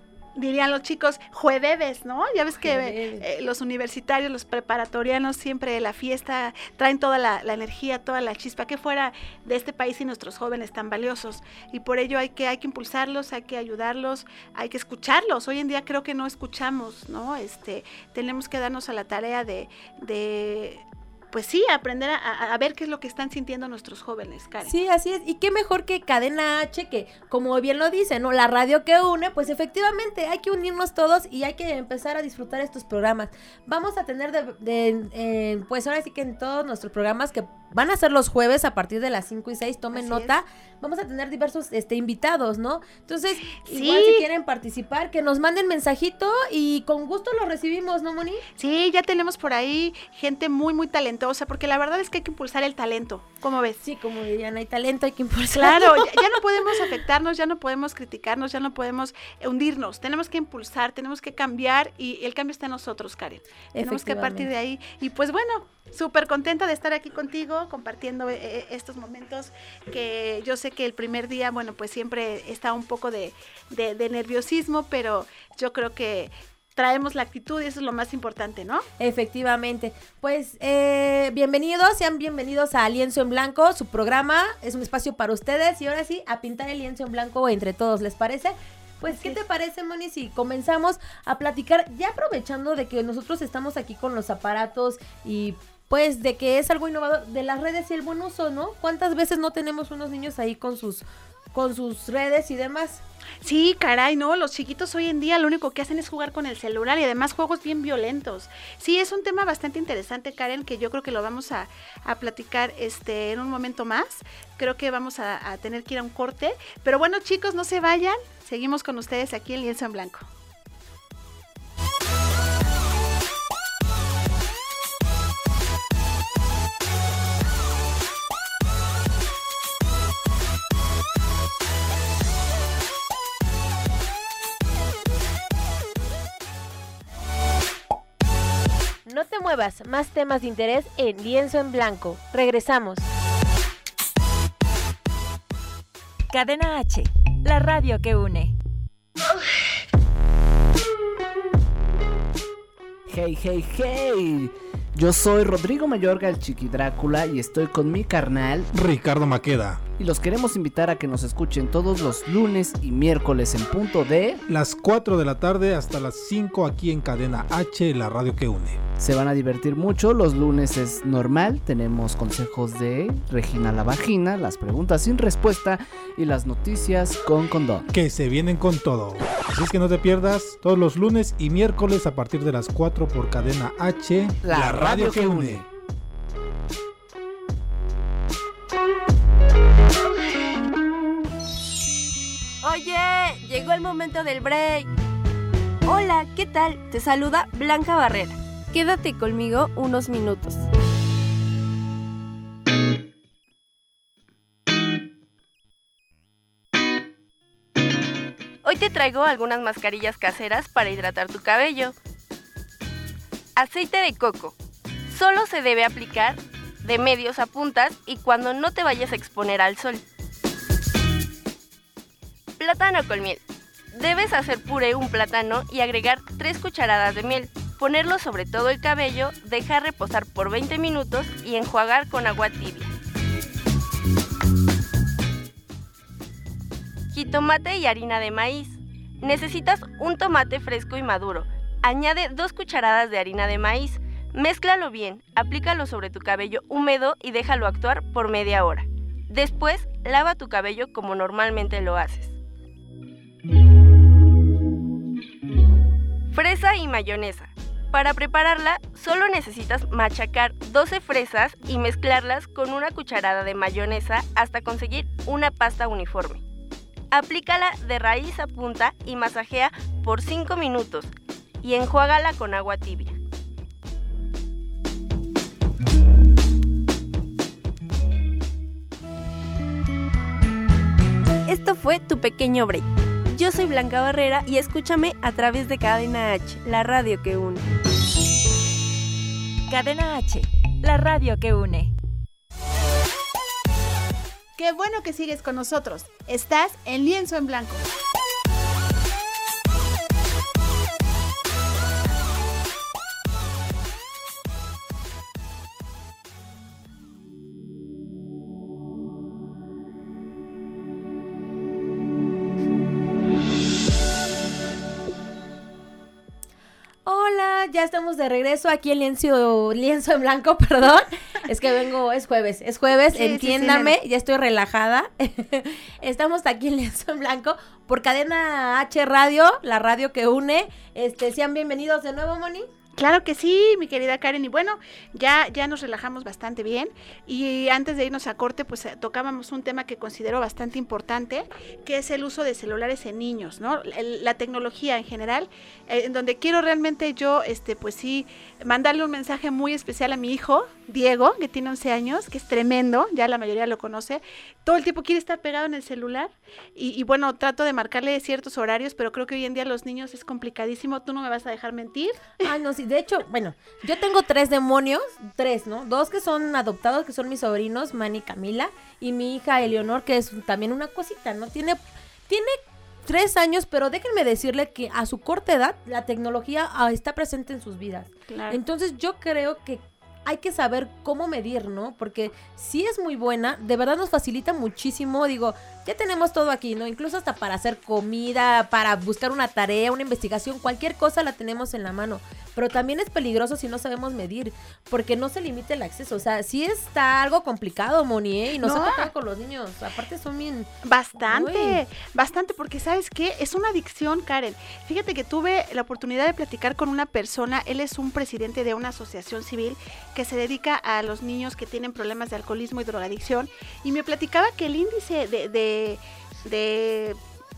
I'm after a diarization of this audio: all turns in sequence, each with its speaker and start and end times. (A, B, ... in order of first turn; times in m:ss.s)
0:00.4-0:24.7 A
0:02.6-0:03.2 B
0:24.6-0:48.4 B
0:40.0-0:40.3 A
0:43.6-0:44.2 A
0:48.6-0:53.8 A
0:53.8-0:56.4 B
0:55.5-1:18.9 A
1:03.8-1:04.5 B
1:19.0-1:43.0 B
1:29.1-1:29.4 A
1:43.4-2:00.2 A
2:19.0-2:23.1 B
2:26.3-2:28.5 C
2:33.1-2:38.7 D
2:38.7-2:39.8 E
2:40.0-2:44.4 D
2:44.5-2:48.8 E
2:49.0-2:57.8 D
2:57.9-3:05.6 E
3:04.4-3:05.7 D
3:12.6-3:14.9 F
3:15.9-3:20.7 F
3:28.6-3:31.9 F
3:33.6-3:34.6 F
3:35.1-3:40.0 F
3:42.6-3:43.4 F
3:43.9-3:52.9 F
3:57.1-4:12.4 F
4:16.3-4:26.4 F
4:27.1-4:31.1 F
4:31.6-4:33.2 F
4:41.5-4:47.6 F
4:49.7-4:51.9 C
4:54.6-4:57.8 A
5:17.1-5:32.7 B
5:23.1-5:24.0 A
5:33.0-6:02.4 A
6:02.4-6:40.7 B
6:18.3-6:18.6 A
6:38.6-6:39.1 A
6:40.8-6:57.2 A
6:41.2-6:41.8 B